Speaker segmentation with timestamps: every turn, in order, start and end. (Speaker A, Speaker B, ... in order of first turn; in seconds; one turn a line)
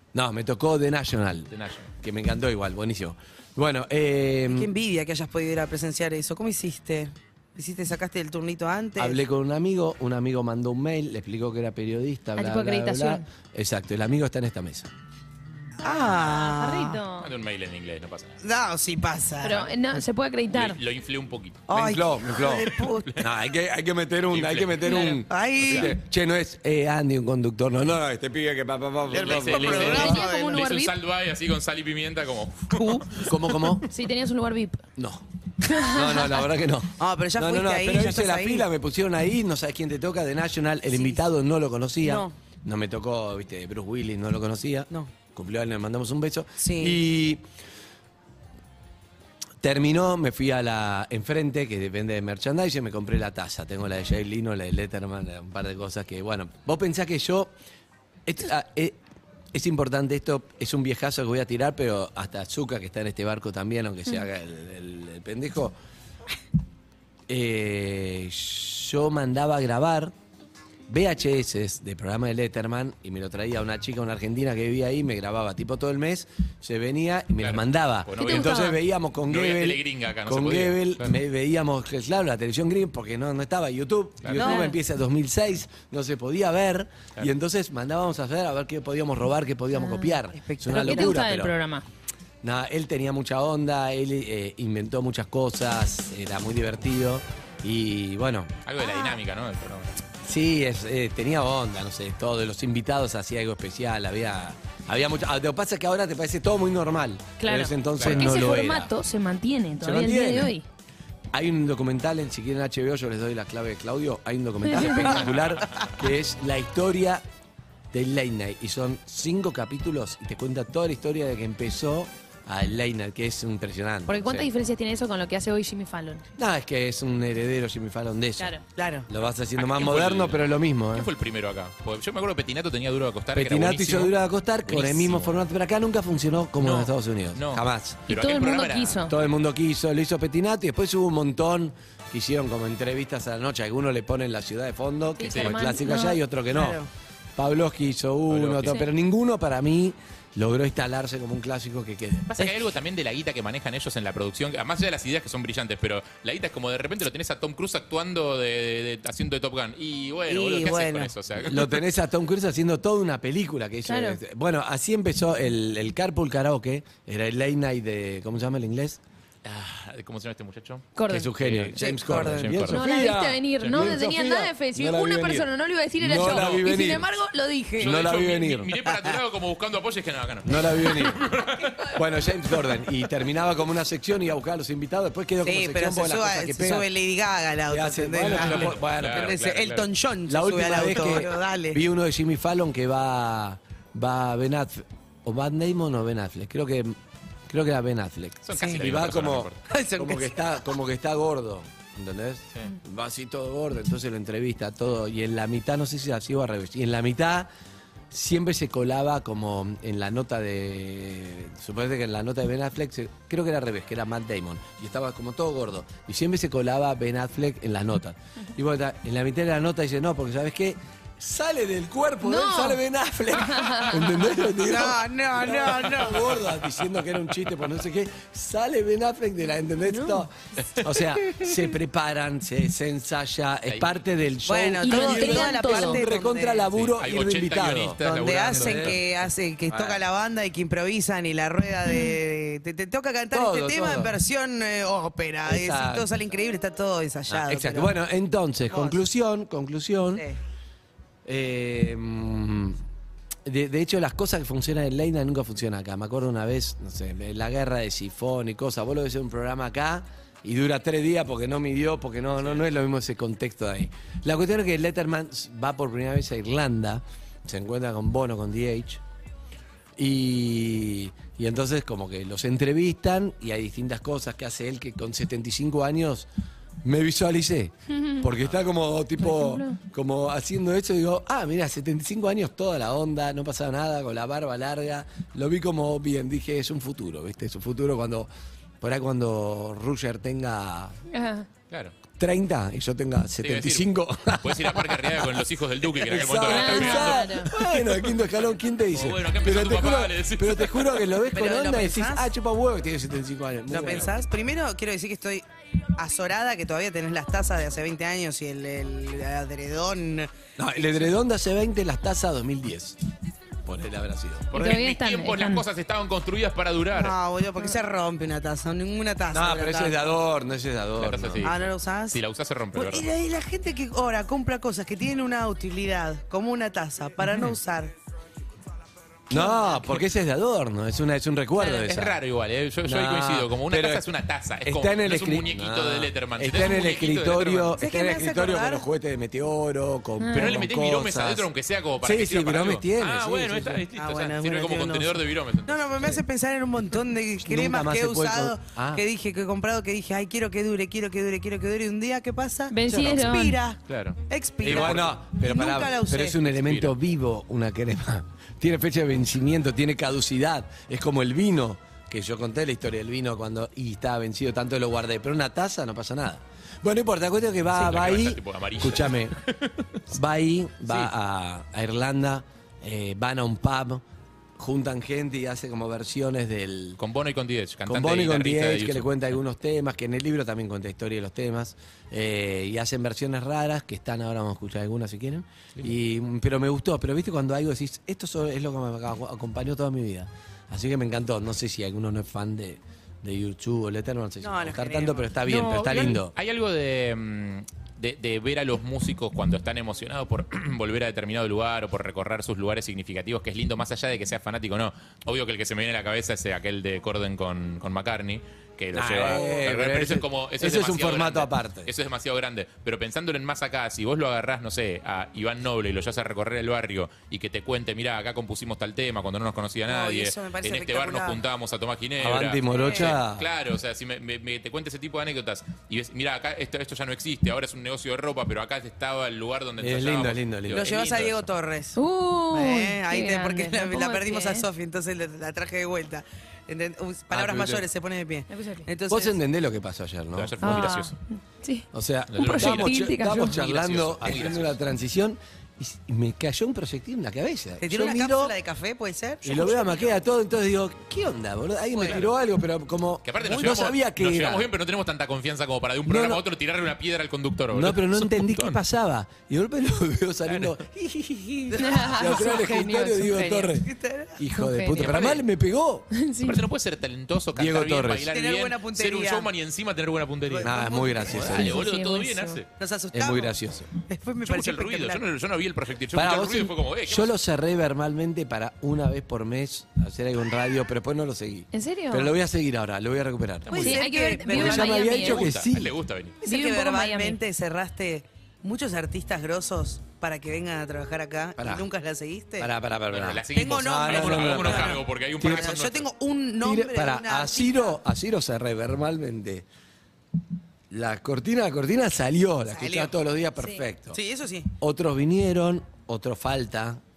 Speaker A: 0.1-4.7
Speaker B: 1.5-1.9
Speaker C: 4.5-9.2
Speaker A: 9.0-14.9
Speaker D: 12.4-13.2
Speaker C: 15.8-17.0
Speaker D: 16.1-17.3
Speaker B: 17.2-18.4
Speaker C: 18.4-19.7
Speaker D: 19.4-20.8
Speaker B: 20.5-21.6
Speaker C: 21.7-23.1
Speaker A: 21.7-30.2
Speaker B: 22.4-23.3
Speaker B: 24.3-25.9
Speaker C: 25.0-26.0
Speaker C: 29.1-30.6
Speaker B: 29.1-33.7
Speaker D: 29.8-30.9
Speaker C: 32.7-33.3
Speaker A: 33.2-33.9
Speaker D: 33.9-34.8
Speaker A: 35.0-47.4
Speaker D: 35.7-36.5
Speaker C: 37.0-38.7
Speaker C: 40.9-41.2
Speaker C: 42.0-42.4
Speaker C: 46.6-47.0
Speaker A: 49.6-57.5
Speaker A: 58.3-59.0
Speaker A: 59.5-65.8
Speaker A: 67.3-70.1
Speaker A: 70.9-91.5
Speaker B: 77.4-78.7
Speaker D: 78.2-78.8
Speaker B: 79.3-81.2
Speaker B: 84.2-84.6
Speaker C: 84.4-84.7
Speaker D: 84.4-84.7
Speaker D: 89.8-90.2
Speaker C: 90.3-91.2
Speaker D: 90.7-91.8
Speaker A: 92.4-98.5
Speaker B: 98.7-99.9
Speaker D: 98.8-99.2
Speaker A: 100.2-108.9
Speaker D: 107.4-110.7
Speaker B: 108.0-108.4
Speaker A: 109.8-110.5
Speaker A: 111.3-117.2
Speaker D: 114.7-115.1
Speaker B: 115.2-115.9
Speaker A: 117.9-124.5
Speaker D: 124.1-126.2
Speaker A: 126.4-128.5
Speaker D: 128.4-128.6
Speaker C: 128.8-129.1
Speaker A: 129.1-131.1
Speaker B: 129.6-134.1
Speaker A: 133.3-138.1
Speaker B: 134.7-135.4
Speaker B: 136.6-139.2
Speaker D: 138.1-139.1
Speaker A: 139.1-146.8
Speaker D: 145.2-146.2
Speaker B: 145.3-145.6
Speaker C: 146.5-146.9
Speaker A: 147.4-152.4
Speaker B: 148.3-148.8
Speaker B: 152.3-161.8
Speaker C: 160.3-161.1
Speaker A: 161.4-169.0
Speaker D: 163.9-164.2
Speaker B: 169.4-172.8
Speaker D: 171.0-171.3
Speaker A: 171.1-177.1
Speaker C: 171.8-172.5
Speaker D: 172.7-178.0
Speaker B: 173.6-174.0
Speaker B: 176.2-176.7
Speaker A: 177.8-178.7
Speaker B: 177.8-182.0
Speaker C: 178.8-179.2
Speaker A: 180.4-181.3
Speaker A: 181.9-186.9
Speaker C: 185.4-191.8
Speaker A: 187.7-189.3
Speaker B: 188.3-189.9
Speaker A: 190.3-197.0
Speaker A: 197.5-207.5
Speaker B: 198.4-199.6
Speaker C: 198.6-198.8
Speaker C: 199.7-200.5
Speaker A: 208.1-238.0
Speaker D: 222.2-222.8
Speaker D: 223.4-224.0
Speaker C: 224.6-226.4
Speaker D: 229.9-230.3
Speaker B: 233.7-233.9
Speaker C: 234.5-236.7
Speaker D: 234.8-236.0
Speaker B: 236.8-239.0
Speaker C: 238.0-247.9
Speaker A: 238.5-239.0
Speaker A: 239.7-240.0
Speaker D: 241.9-242.2
Speaker A: 243.3-244.2
Speaker A: 245.5-246.1
Speaker A: 247.3-250.2
Speaker C: 248.7-249.0
Speaker C: 250.1-250.4
Speaker A: 251.2-252.8
Speaker A: 253.4-269.0
Speaker A: 270.0-276.3
Speaker A: 276.8-288.3
Speaker D: 277.9-278.2
Speaker D: 279.2-279.8
Speaker A: 288.8-291.0
Speaker D: 291.1-291.5
Speaker B: 291.7-291.9
Speaker A: 292.2-304.1
Speaker B: 293.4-298.2
Speaker D: 296.4-297.5
Speaker B: 298.9-301.1
Speaker C: 301.3-302.3
Speaker C: 303.7-305.4
Speaker C: 306.0-310.3
Speaker A: 310.6-313.0
Speaker A: 313.6-314.5
Speaker B: 314.5-317.2
Speaker D: 314.5-315.6
Speaker C: 316.9-320.1
Speaker A: 319.3-321.5
Speaker B: 321.0-323.1
Speaker C: 321.4-322.2
Speaker C: 322.8-327.9
Speaker A: 329.3-332.2
Speaker C: 329.3-330.0
Speaker D: 331.6-331.9
Speaker B: 331.9-337.8
Speaker A: 332.8-334.1
Speaker A: 334.6-341.5
Speaker C: 337.8-338.8
Speaker D: 340.2-340.6
Speaker B: 340.3-346.2
Speaker A: 342.0-343.9
Speaker C: 344.0-356.4
Speaker A: 347.4-349.0
Speaker D: 352.7-353.6
Speaker B: 353.9-355.1
Speaker A: 354.6-369.4
Speaker B: 356.5-356.9
Speaker B: 367.7-369.9
Speaker A: 370.1-374.1
Speaker A: 374.6-377.0
Speaker B: 377.0-379.4
Speaker A: 377.9-396.3
Speaker C: 394.4-395.3
Speaker B: 395.5-431.5
Speaker A: 408.9-411.9
Speaker C: 419.9-421.4
Speaker A: 422.2-423.5
Speaker C: 422.7-423.1
Speaker A: 429.8-430.9
Speaker C: 430.7-432.0
Speaker D: 432.0-434.7
Speaker C: 432.5-439.4
Speaker A: 437.3-437.9
Speaker D: 438.5-438.9
Speaker A: 439.1-441.0
Speaker B: 440.4-441.2
Speaker D: 440.6-443.6
Speaker A: 441.9-448.6
Speaker B: 442.3-444.8
Speaker C: 447.8-450.2
Speaker A: 449.4-454.7
Speaker C: 451.9-452.2
Speaker B: 453.2-458.8
Speaker A: 456.1-456.4
Speaker A: 457.7-466.1
Speaker B: 460.5-460.8
Speaker D: 461.8-463.7
Speaker C: 463.8-464.4
Speaker D: 464.5-465.1
Speaker B: 465.0-465.4
Speaker D: 466.1-466.6
Speaker B: 466.4-472.7
Speaker A: 467.5-468.3
Speaker C: 468.3-469.5
Speaker C: 470.5-471.6
Speaker A: 470.6-471.8
Speaker D: 471.5-472.6
Speaker C: 472.8-475.2
Speaker A: 473.1-473.9
Speaker B: 474.4-477.3
Speaker A: 476.1-486.0
Speaker D: 481.7-482.3
Speaker B: 483.7-484.0
Speaker C: 483.7-485.0
Speaker D: 483.8-485.5
Speaker B: 484.5-486.4
Speaker C: 486.4-492.7
Speaker D: 486.4-487.4
Speaker A: 491.6-491.9
Speaker A: 492.6-495.7
Speaker B: 493.1-496.1
Speaker C: 493.5-498.0
Speaker A: 496.6-499.7
Speaker A: 500.9-504.2
Speaker C: 502.7-503.1
Speaker C: 504.1-504.7
Speaker A: 504.8-507.0